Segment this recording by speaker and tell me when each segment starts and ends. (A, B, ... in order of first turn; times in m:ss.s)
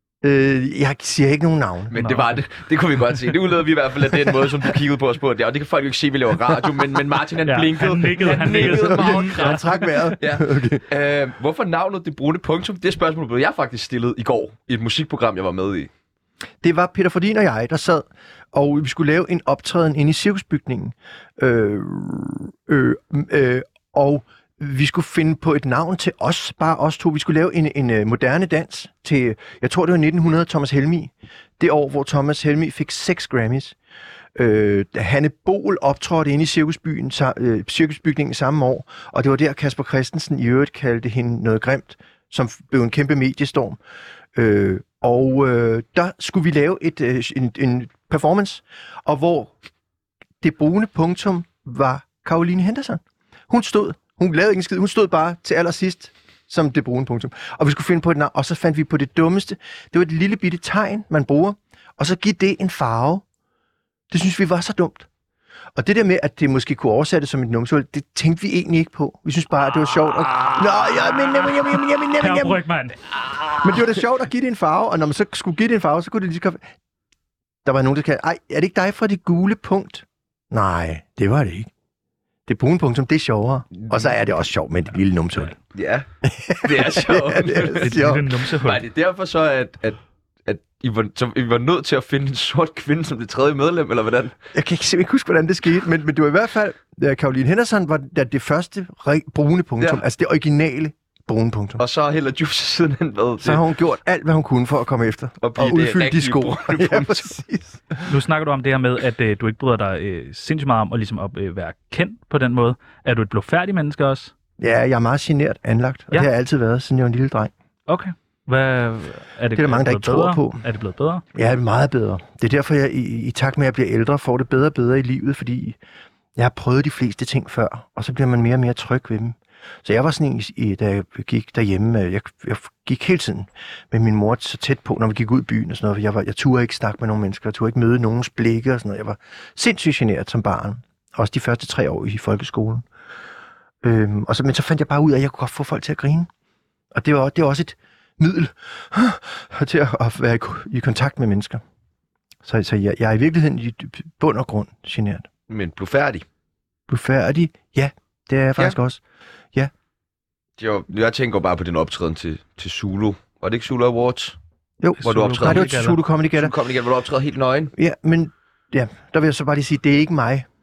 0:00.2-0:01.9 A
0:01.9-0:15.9 B
0:02.0-0:02.4 C
0:07.4-0:10.1 C
0:08.5-0:10.8 A
0:16.6-0:33.8 A
0:34.4-0:43.8 A
0:44.4-0:49.5 A
0:50.4-1:03.2 A
1:04.1-1:05.1 A
1:05.8-1:12.6 A
1:09.8-1:13.0 C
1:13.4-1:13.8 B
1:13.6-1:16.6 A
1:17.6-1:21.7 A
1:22.5-1:25.6 A
1:25.7-1:26.1 B
1:26.2-1:28.3 A
1:26.6-1:34.4 B
1:27.8-1:28.8 C
1:34.5-1:41.8 A
1:41.8-1:43.6 B
1:43.4-1:48.1 A
1:45.4-1:47.3 B
1:48.1-1:54.3 C
1:54.6-1:57.5 A
1:57.9-2:01.2 C
1:59.6-2:00.6 A
2:01.3-2:05.8 A
2:06.4-2:22.8 A
2:23.8-2:26.3 A
2:26.9-2:31.6 A
2:32.4-2:35.3 A
2:35.5-2:36.2 B
2:36.9-2:39.0 A
2:40.6-2:44.4 B
2:44.8-2:46.6 A
2:45.0-2:46.0 C
2:45.0-2:47.7 B
2:47.8-2:50.5 A